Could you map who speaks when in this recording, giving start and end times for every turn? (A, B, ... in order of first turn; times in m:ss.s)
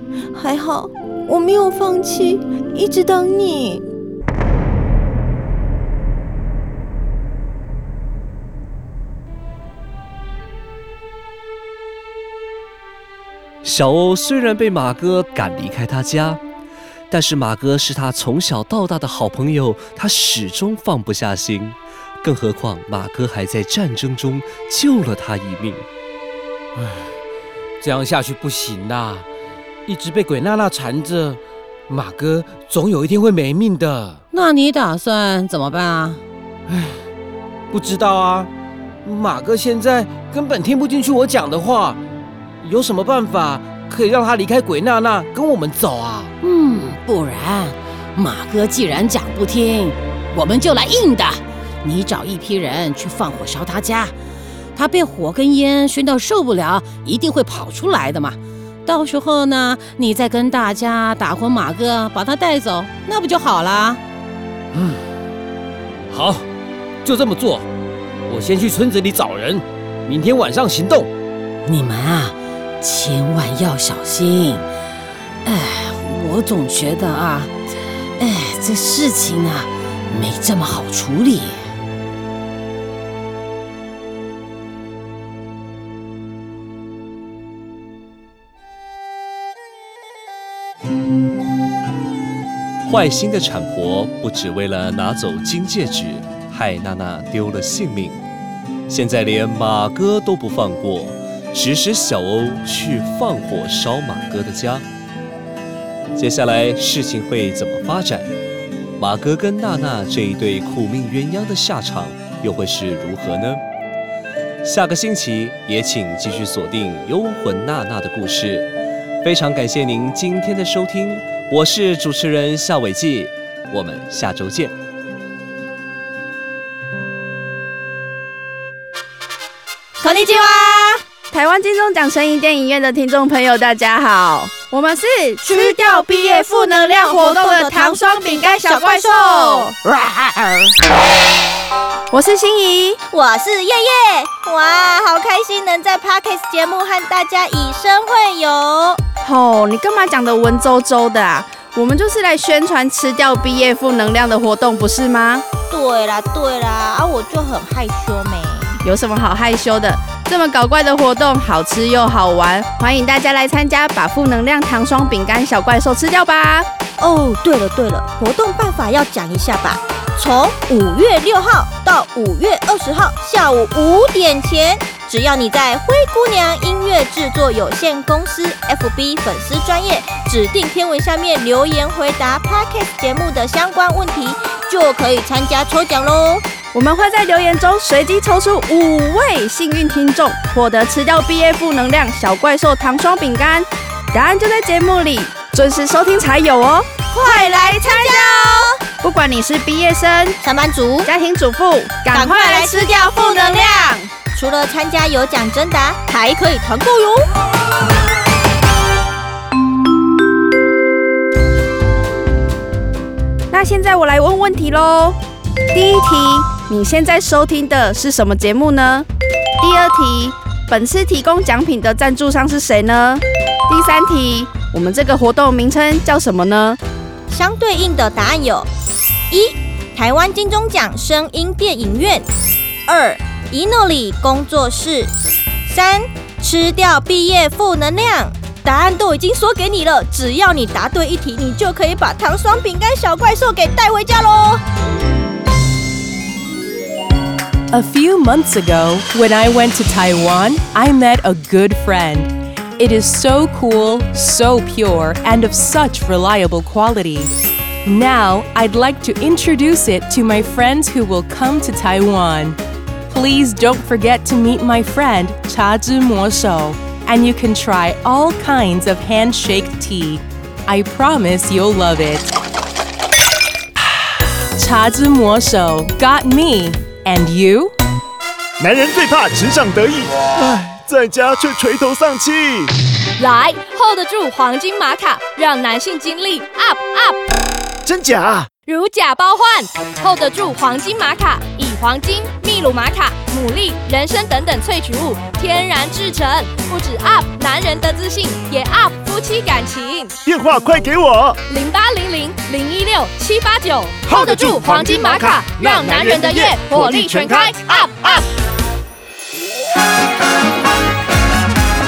0:00.3-0:03.8 A
0:13.6-0:16.4 B
0:17.1-0:25.8 B
0:26.8-0:27.0 C
0:27.8-0:29.2 C
0:29.9-0:31.4 C
0:31.9-0:34.2 C
0:34.3-0:36.2 D
0:37.7-0:38.5 C
0:39.0-0:42.0 C
0:42.6-0:46.3 C
0:46.4-0:54.2 D
0:54.7-1:04.0 D
1:06.1-1:06.4 C
1:07.0-1:07.6 C
1:08.3-1:11.1 C
1:11.6-1:14.7 D
1:15.4-1:17.5 D
1:18.2-1:21.7 D
1:32.8-1:38.2 B
1:38.9-1:44.8 B
1:46.2-1:48.3 B
1:49.0-1:53.6 B
1:54.6-1:58.7 B
1:59.2-2:04.7 B
2:10.0-2:10.9 E
2:10.0-2:10.4 F
2:11.3-2:19.8 F
2:17.0-2:20.5 E
2:22.1-2:23.0 F
2:23.1-2:29.0 E
2:29.2-2:35.4 F
2:35.7-2:38.7 E
2:38.8-2:46.6 F
2:47.0-3:06.5 E
3:06.7-3:20.4 F
3:17.1-3:18.8 E
3:20.4-3:21.1 E
3:21.0-3:24.1 F
3:22.1-3:27.3 E
3:33.5-3:35.2 F
3:35.7-3:39.0 F
3:39.6-3:46.8 F
3:47.3-3:48.7 E
3:49.3-3:52.2 E
3:52.9-3:55.1 E
3:55.6-4:04.6 E
4:07.7-4:17.3 G
4:17.8-4:22.6 G
4:23.1-4:32.3 G
4:34.6-4:37.7 G
4:38.6-4:42.7 H
4:43.2-4:47.2 I
4:47.8-4:48.5 H
4:48.6-5:00.1 I
5:00.2-5:01.4 H
5:01.5-5:08.2 I
5:04.0-5:08.2 H